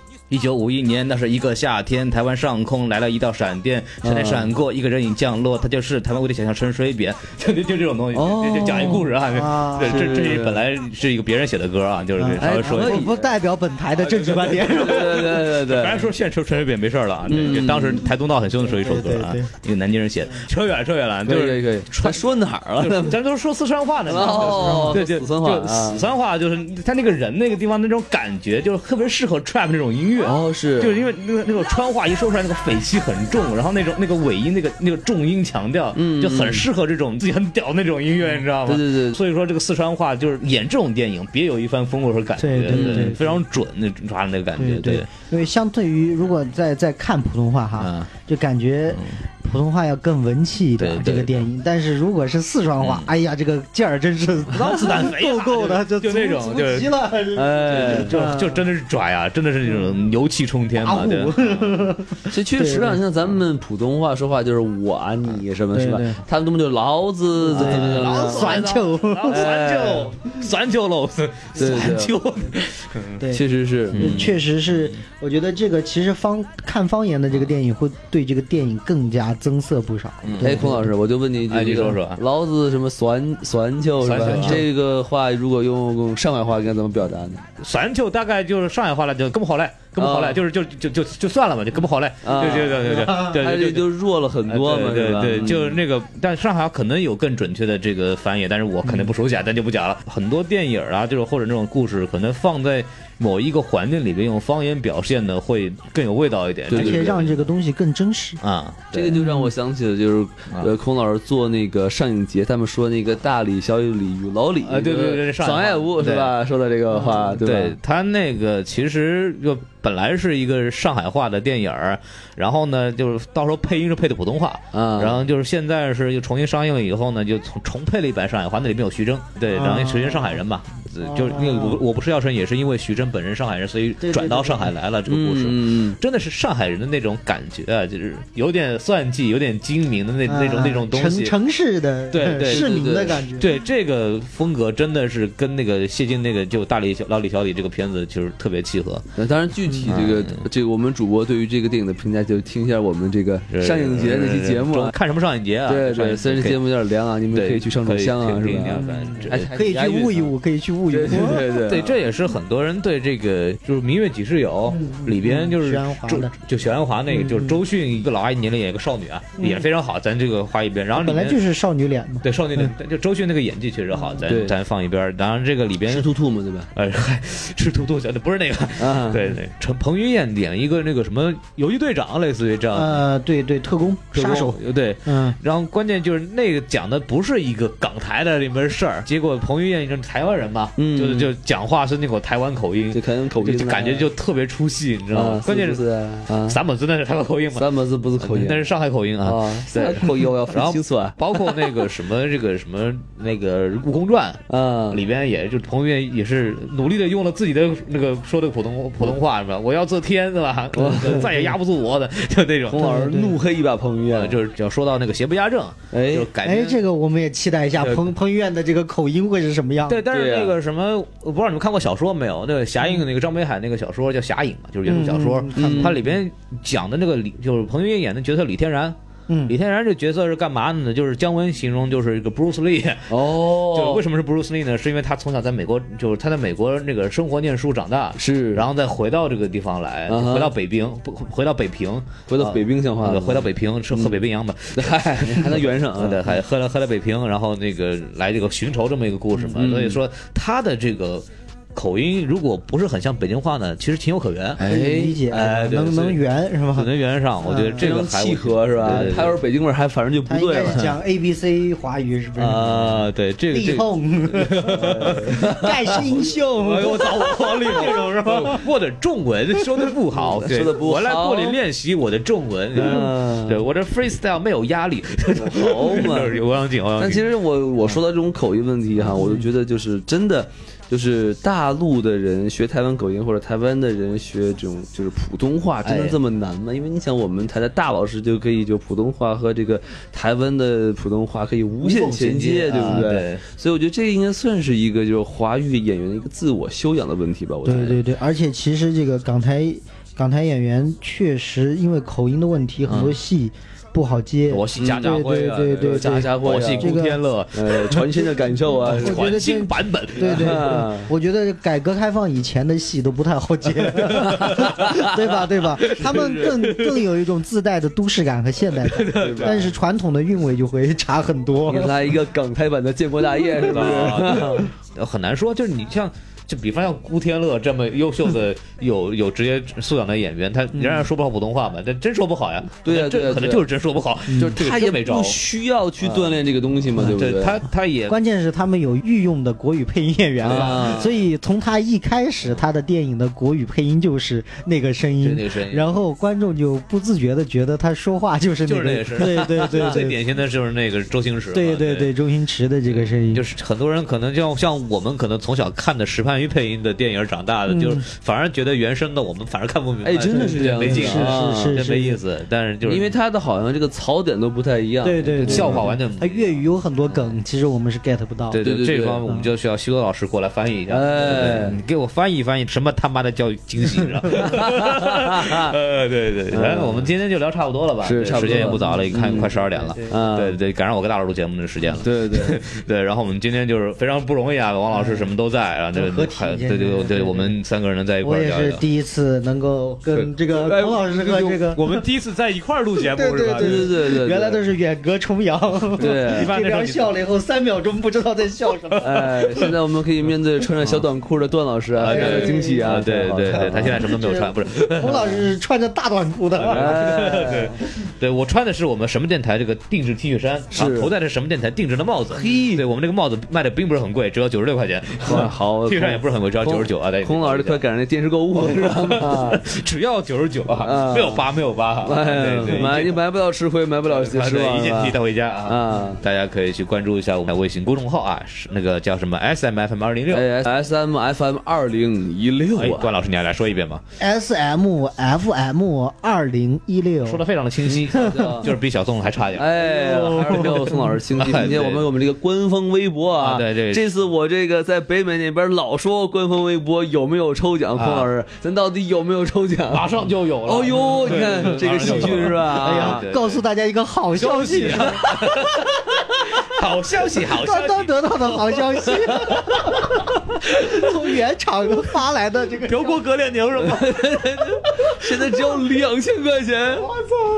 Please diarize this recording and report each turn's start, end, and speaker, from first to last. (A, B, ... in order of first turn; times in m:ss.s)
0:00.3-0:13.1 A
0:04.0-0:04.5 B
0:08.1-0:09.1 B
0:09.3-0:10.1 C
0:09.8-0:10.6 B
0:12.2-0:15.2 C
0:12.4-0:13.3 B
0:14.0-0:22.2 A
0:14.6-0:16.1 B
0:17.3-0:18.1 B
0:18.6-0:19.5 C
0:21.3-0:23.2 B
0:22.8-0:45.1 A
0:24.1-0:26.0 B
0:24.5-0:25.0 C
0:30.2-0:31.0 B
0:36.0-0:36.7 B
0:38.6-0:39.2 B
0:42.4-0:43.4 C
0:42.7-0:43.2 B
0:44.6-0:58.6 C
0:47.8-0:48.1 A
0:50.8-0:51.4 A
0:52.8-0:53.1 A
0:54.5-0:57.0 A
0:57.3-0:58.2 B
0:57.7-1:02.0 A
0:59.7-1:00.0 C
1:00.8-1:03.0 C
1:02.3-1:08.7 B
1:05.7-1:06.2 C
1:07.5-1:09.5 C
1:07.5-1:13.2 A
1:09.3-1:10.1 B
1:11.6-1:12.2 B
1:13.3-1:14.4 B
1:13.9-1:15.0 A
1:14.0-1:20.9 C
1:20.2-1:20.7 A
1:20.4-1:27.4 B
1:21.5-1:22.2 A
1:24.0-1:24.6 A
1:24.2-1:24.6 C
1:27.6-1:33.9 A
1:30.0-1:30.4 B
1:32.2-1:35.8 B
1:34.5-1:47.5 A
1:46.7-1:47.1 B
1:46.7-1:48.4 C
1:48.4-1:49.2 A
1:48.9-1:57.8 B
1:49.2-1:49.5 C
1:54.6-1:56.3 A
1:57.0-1:57.3 C
1:57.4-2:21.4 A
2:04.7-2:05.2 B
2:09.5-2:10.4 C
2:11.0-2:11.8 C
2:14.0-2:14.7 C
2:15.1-2:16.0 B
2:20.3-2:23.5 C
2:22.1-2:29.1 A
2:22.2-2:23.3 B
2:29.2-2:34.9 B
2:29.9-2:30.4 A
2:33.5-2:36.6 A
2:35.7-2:40.3 B
2:37.3-2:39.5 A
2:38.8-2:41.5 C
2:40.9-2:41.9 B
2:41.2-2:51.4 A
2:44.7-2:46.3 C
2:47.1-2:47.6 C
2:49.4-2:49.6 C
2:51.0-2:52.7 C
2:52.2-2:56.1 A
2:54.3-2:54.6 B
2:55.9-2:56.7 B
2:56.7-3:03.0 A
2:58.8-2:59.3 B
3:02.7-3:05.4 C
3:04.1-3:33.2 A
3:10.8-3:11.3 B
3:12.9-3:14.1 B
3:15.1-3:16.6 B
3:17.6-3:18.7 B
3:19.2-3:21.8 B
3:24.5-3:25.0 B
3:30.7-3:31.5 B
3:32.7-3:34.4 B
3:32.8-3:33.3 C
3:34.1-3:36.8 A
3:35.9-3:36.3 B
3:36.4-3:40.0 C
3:39.9-3:49.0 A
3:40.1-3:40.5 B
3:44.9-3:46.1 C
3:45.6-3:46.0 B
3:49.3-3:49.6 C
3:49.5-4:14.7 A
3:53.1-3:54.0 B
3:58.2-3:58.6 B
4:00.1-4:00.5 B
4:02.3-4:04.2 B
4:04.7-4:06.3 B
4:09.5-4:10.0 B
4:14.6-4:15.5 B
4:14.6-4:16.9 C
4:15.3-4:16.2 A
4:16.7-4:19.4 A
4:17.4-4:17.9 C
4:17.8-4:20.8 B
4:18.9-4:19.2 C
4:20.3-4:28.7 C
4:22.4-4:37.3 A
4:24.7-4:26.0 B
4:30.2-4:31.6 B
4:32.7-4:33.6 B
4:35.4-4:36.4 B
4:37.0-4:58.0 B
4:45.8-4:46.2 A
4:51.8-4:53.4 A
4:57.6-5:07.2 C
5:02.9-5:03.2 A
5:04.5-5:08.3 A
5:04.8-5:06.9 B
5:07.5-5:09.4 B
5:08.8-5:10.8 A
5:08.8-5:22.0 C
5:10.2-5:11.1 B
5:14.0-5:15.0 A
5:14.2-5:15.1 B
5:15.8-5:17.0 A
5:16.0-5:16.5 B
5:18.8-5:19.7 A
5:19.2-5:19.7 B
5:21.7-5:24.7 B
5:23.6-5:35.4 A
5:30.8-5:31.1 C
5:32.8-5:33.6 B
5:34.4-5:37.6 B
5:36.0-5:36.4 A
5:37.0-5:38.2 A
5:38.1-5:50.2 C
5:40.4-5:41.1 A
5:40.4-5:41.1 B
5:45.2-5:45.9 A
5:48.7-5:52.1 A
5:49.4-5:49.9 B
5:51.5-5:53.5 C
5:52.9-6:03.1 A
5:57.7-5:58.0 C
6:00.0-6:01.8 B
6:00.2-6:02.2 C
6:02.8-6:05.9 B
6:05.0-6:08.6 C
6:05.4-6:07.4 A
6:08.5-6:28.8 A
6:08.6-6:09.2 B
6:10.9-6:11.8 B
6:14.3-6:15.7 B
6:16.5-6:17.1 B
6:18.0-6:19.5 B
6:18.5-6:20.1 C
6:20.1-6:20.6 B
6:22.0-6:22.6 B
6:24.9-6:25.3 C
6:25.9-6:27.6 C
6:28.2-6:32.0 C
6:30.1-6:33.9 A
6:30.7-6:31.0 B
6:33.0-6:39.7 C
6:33.6-6:34.6 B
6:36.0-6:36.5 B
6:36.0-6:37.2 A
6:39.0-6:44.1 B
6:42.0-6:45.4 A
6:42.1-6:43.0 C
6:44.0-6:47.5 C
6:46.6-6:57.8 A
6:46.7-6:47.8 B
6:50.7-6:51.1 B
6:52.3-6:52.8 B
6:55.2-6:59.6 B
6:58.6-7:03.2 A
7:00.8-7:01.4 B
7:02.0-7:06.2 B
7:04.1-7:10.5 A
7:10.3-7:13.1 B
7:12.8-7:14.0 A
7:14.2-7:17.4 C
7:17.2-7:20.8 A
7:17.9-7:18.7 B
7:19.6-7:30.1 B
7:19.9-7:21.0 C
7:21.3-7:22.1 A
7:23.4-7:24.1 A
7:28.0-7:28.3 A
7:29.9-7:33.6 A
7:30.7-7:33.2 B
7:32.1-7:36.2 C
7:34.4-7:39.9 A
7:37.4-7:43.2 C
7:40.7-7:41.1 A
7:42.8-7:45.2 A
7:43.8-7:47.1 B